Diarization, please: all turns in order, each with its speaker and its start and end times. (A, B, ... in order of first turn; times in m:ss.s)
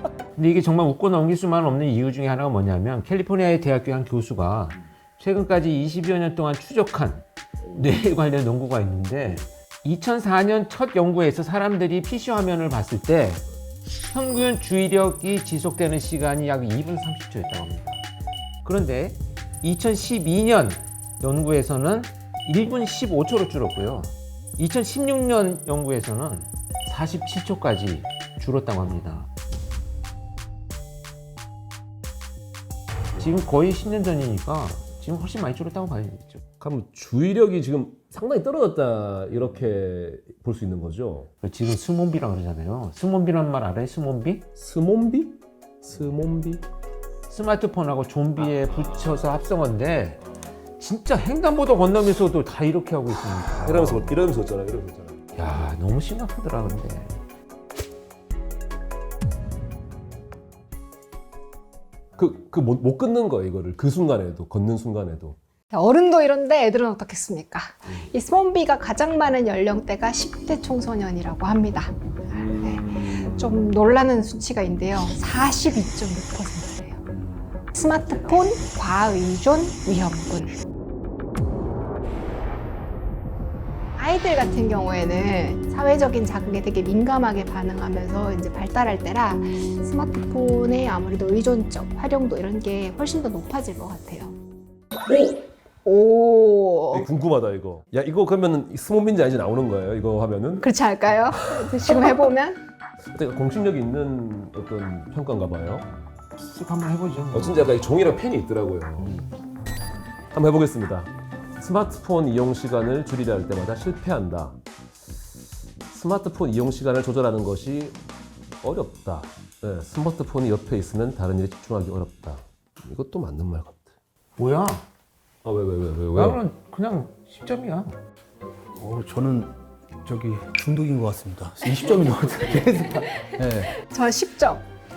0:00.4-0:13.4 A
0:14.1-0:18.0 A
0:18.6-0:29.3 A
0:33.2-0:36.4 A
0:36.6-0:41.3 B
0:41.4-0:44.5 A
0:44.6-0:46.6 B
0:47.3-0:50.2 A
0:50.8-0:54.1 A
0:53.6-0:55.3 B
0:55.4-0:57.2 A
1:02.2-1:05.4 B
1:05.7-1:17.0 C
1:12.3-1:13.6 B
1:17.1-1:17.4 B
1:17.7-1:20.6 C
1:24.0-1:34.3 C
1:35.1-1:35.4 B
1:35.8-1:37.1 C
1:36.9-1:40.7 B
1:40.6-1:42.6 C
1:41.6-1:42.2 B
1:43.1-1:45.9 B
1:46.4-1:47.7 A
1:47.3-1:49.3 B
1:50.3-1:54.6 B
1:55.9-1:58.0 B
1:58.6-2:03.9 B
2:04.4-2:04.8 A
2:05.4-2:06.4 B
2:06.2-2:08.0 A
2:08.8-2:13.7 D
2:13.7-2:14.6 C